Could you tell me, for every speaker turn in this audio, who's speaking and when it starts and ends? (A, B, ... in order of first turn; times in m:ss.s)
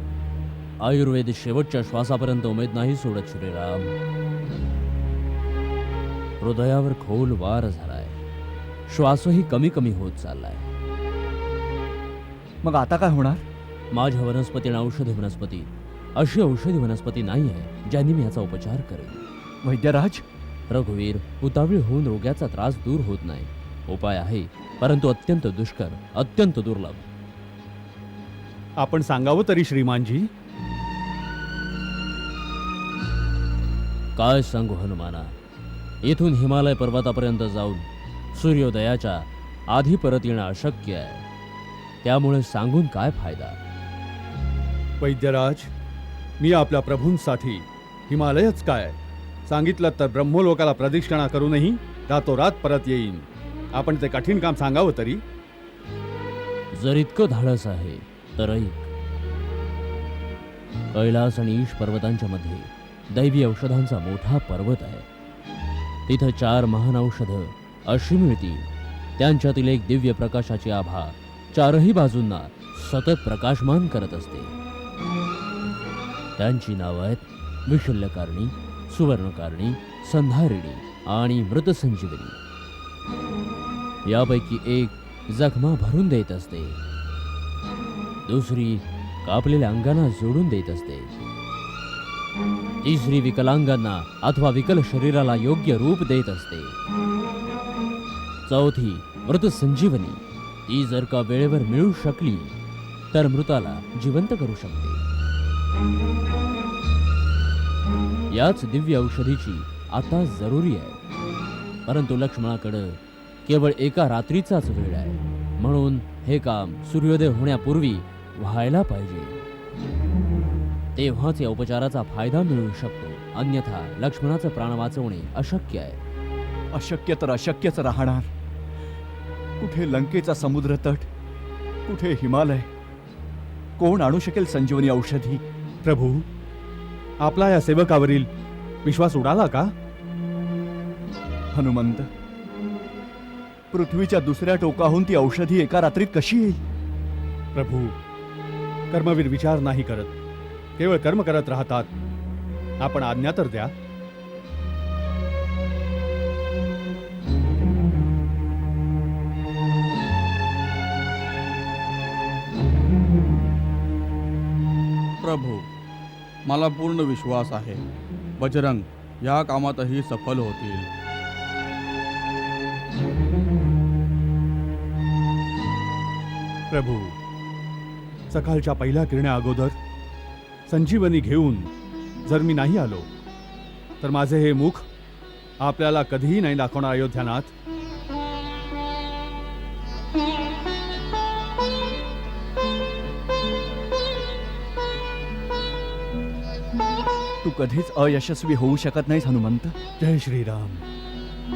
0:00.8-0:03.9 A
0:06.4-0:08.2 A
0:08.9-0:10.7 A
0:12.6-0:13.4 B
0:13.9-0:19.2 A
0:19.6-0:20.2 B
0:20.7-0:27.1 A
0:28.8-0:30.3 C
0:34.2-0:35.3 A
0:36.0-0:41.2 A
0:42.0-0:43.6 A
0:45.0-0:45.7 C
0:46.4-0:55.2 C
0:56.7-0:58.9 A
1:00.9-1:05.1 A
1:06.1-1:14.5 A
1:16.4-1:22.4 A
1:24.1-1:26.8 A
1:28.3-1:31.1 A
1:32.8-1:36.8 A
1:38.5-1:42.5 A
1:43.1-1:45.0 A
1:48.3-1:51.0 A
1:51.8-1:59.4 A
2:01.0-2:06.0 A
2:06.7-2:08.3 B
2:09.6-2:11.1 B
2:11.9-2:12.7 B
2:13.8-2:15.4 B
2:15.8-2:16.2 C
2:17.2-2:18.3 C
2:18.8-2:19.7 C
2:21.5-2:22.1 B
2:23.7-2:26.6 B
2:27.5-2:28.0 C
2:28.9-2:30.1 C
2:30.8-2:31.9 C
2:32.8-2:33.7 C
2:45.2-2:45.6 D
2:46.5-2:47.8 D
2:48.4-2:50.9 D
2:56.7-2:57.1 C
2:58.3-2:59.8 C
3:00.7-3:01.7 C
3:02.2-3:03.1 C
3:04.0-3:04.9 C
3:05.6-3:07.5 C
3:17.4-3:19.8 B
3:20.0-3:20.8 C